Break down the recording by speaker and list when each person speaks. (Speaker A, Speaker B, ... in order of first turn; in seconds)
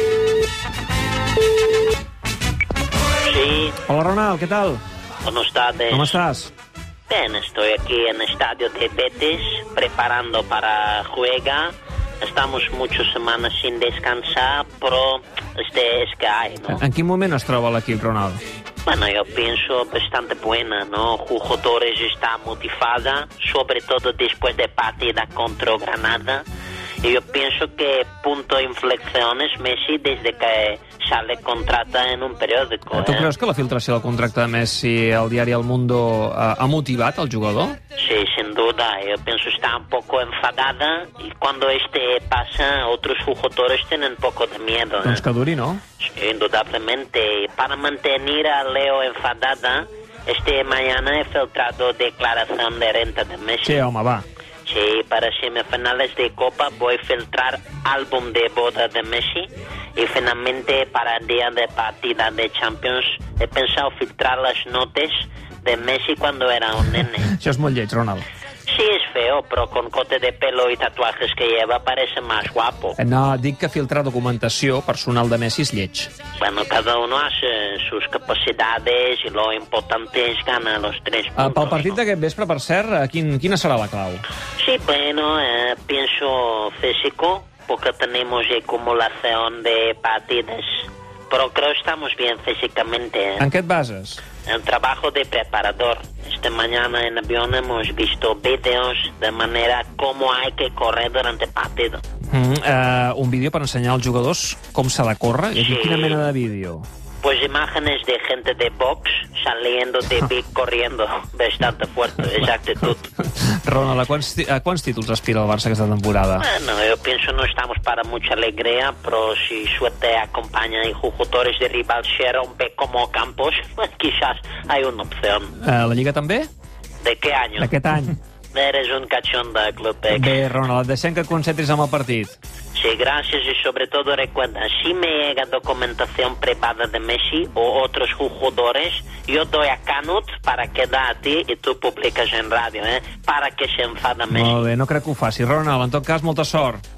Speaker A: 3.2-3.8, 5.2-6.2, 7.1-16.8, 18.9-26.4, 27.0-33.3, 38.0-45.2, 46.0-53.8, 54.6-67.3, 68.7-73.0, 76.4-82.0, 84.6-93.5, 94.4-102.0, 105.5-106.2, 107.2-113.1, 116.4-125.5, 127.0-127.7, 128.5-130.4, 132.8-144.7
Speaker B: 3.8-4.8, 5.9-6.5, 16.7-18.4, 32.9-37.8, 45.0-45.8, 53.6-54.2, 67.2-68.2, 73.0-76.1, 81.3-84.2, 93.4-94.2, 102.3-106.8, 113.4-116.5, 125.6-126.5, 127.6-128.2, 130.1-132.4, 144.3-146.8